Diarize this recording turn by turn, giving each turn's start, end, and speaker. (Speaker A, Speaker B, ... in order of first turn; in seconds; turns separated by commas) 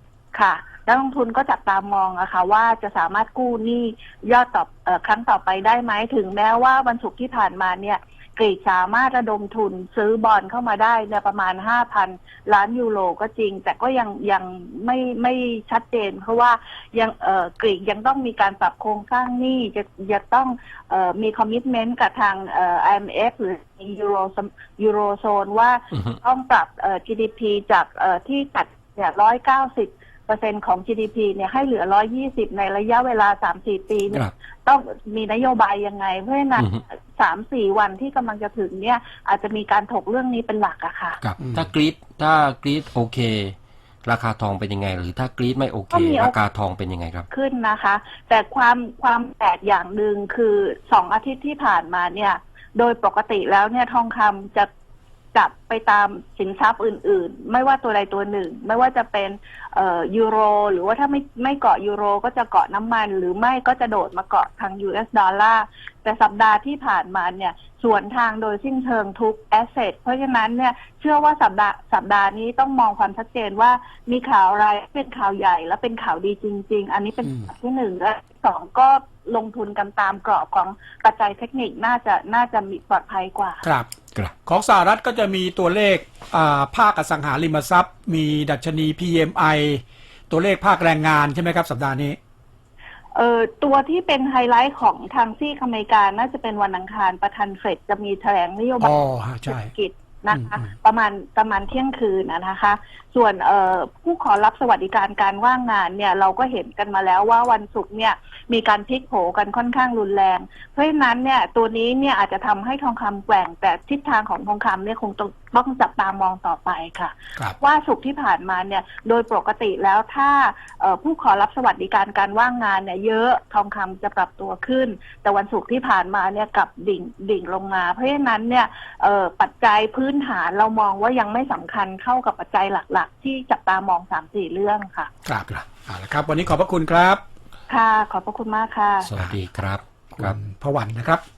Speaker A: 0.3-41.2, Speaker B: 41.2-47.3, Speaker A: 45.9-46.4, Speaker A: 47.3-54.7, Speaker A: 55.3-83.6, Speaker C: 83.6-83.9, Speaker C: 84.5-92.2, Speaker A: 93.2-135.1, Speaker C: 98.8-99.7, Speaker C: 135.2-137.2, Speaker A: 137.7-139.1, Speaker B: 139.0-140.4, Speaker C: 140.2-141.2